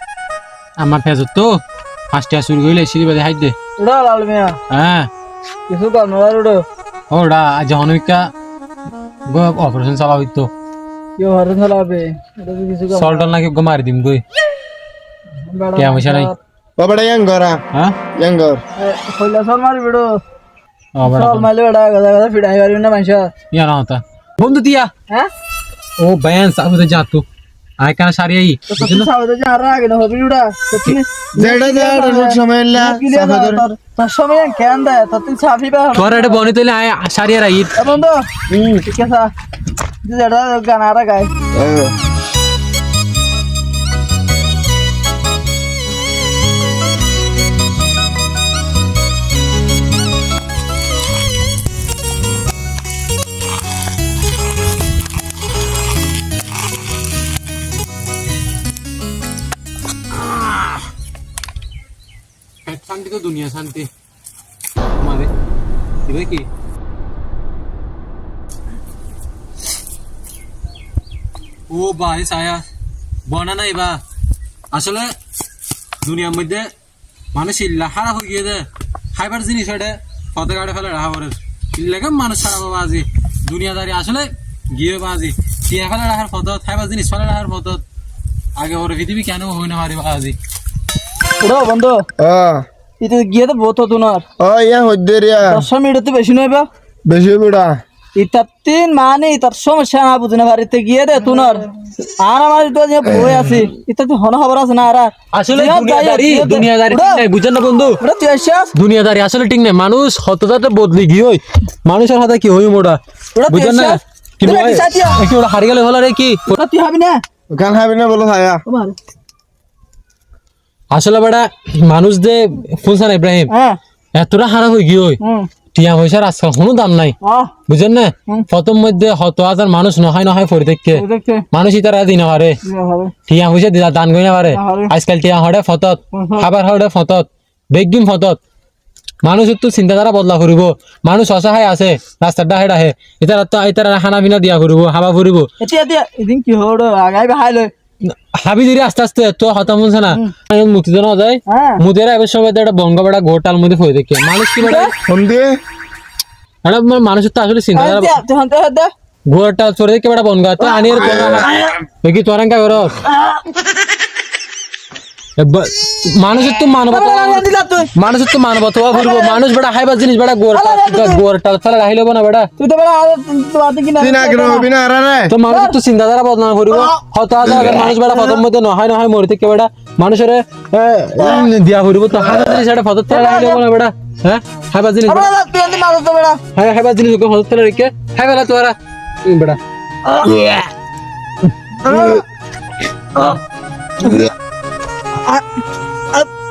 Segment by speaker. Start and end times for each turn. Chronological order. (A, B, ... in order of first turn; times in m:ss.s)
0:00.8-0:01.6 A
0:02.1-0:03.6 A
0:03.8-0:04.6 B
0:04.7-0:05.1 A
0:05.7-0:06.6 B
0:07.1-0:08.3 A
0:09.3-0:10.5 A
0:11.2-0:13.3 B
0:12.9-0:14.2 A
0:15.5-0:16.4 B
0:15.8-0:16.3 A
0:16.8-0:17.6 C
0:18.1-0:18.6 C
0:18.8-0:20.1 B
0:21.0-0:21.5 A
0:21.0-0:23.3 B
0:23.5-0:24.9 A
0:26.0-0:27.2 A
0:27.8-0:29.1 A
0:28.7-0:36.5 B
0:31.4-0:33.6 C
0:36.0-0:37.9 A
0:37.8-0:38.2 B
0:38.5-0:38.8 C
0:38.8-0:39.3 B
0:40.0-0:41.3 B
0:41.5-0:42.0 C
1:00.1-1:00.8 A
1:02.6-1:03.9 A
1:05.0-1:05.3 A
1:06.0-1:06.5 A
1:11.7-1:12.6 A
1:13.2-1:14.0 A
1:14.7-1:15.1 A
1:16.0-1:16.7 A
1:17.3-1:27.8 A
1:28.6-1:30.4 A
1:31.4-1:32.0 B
1:32.2-1:32.6 C
1:33.0-1:34.2 B
1:34.4-1:35.6 C
1:35.4-1:36.7 B
1:37.0-1:37.8 C
1:38.2-1:47.2 B
1:43.1-1:43.6 C
1:45.3-1:48.0 A
1:48.0-1:48.7 B
1:48.7-1:56.6 A
1:53.4-1:55.2 B
1:56.5-1:57.2 B
1:57.5-1:58.6 C
1:58.7-1:59.0 B
2:00.9-2:03.5 A
2:03.5-2:03.8 B
2:04.1-2:05.2 A
2:05.2-2:05.5 B
2:05.7-2:07.2 A
2:07.2-2:07.5 B
2:07.7-2:12.6 A
2:10.9-2:11.5 B
2:12.7-2:13.1 B
2:13.3-2:18.4 A
2:14.5-2:14.9 B
2:16.1-2:16.5 B
2:19.2-2:25.5 A
2:25.6-2:27.7 B
2:28.0-2:34.9 A
2:31.5-2:31.8 B
2:34.6-2:34.9 B
2:35.1-2:35.6 C
2:36.6-2:38.2 A
2:37.8-2:38.9 B
2:39.3-2:43.0 A
2:40.7-2:41.7 B
2:41.0-2:41.5 C
2:43.2-2:43.4 B
2:45.4-2:52.5 A
2:46.9-2:47.9 B
2:48.9-2:49.4 B
2:50.5-2:51.2 B
2:52.6-2:54.7 B
2:54.0-2:55.3 C
2:55.3-3:05.3 A
2:55.5-2:55.8 B
2:57.5-2:58.4 B
3:03.1-3:03.6 B
3:05.1-3:06.4 B
3:06.5-3:09.6 A
3:10.1-3:10.6 B
3:11.8-3:12.2 B
3:14.0-3:14.3 B
3:15.2-3:15.4 B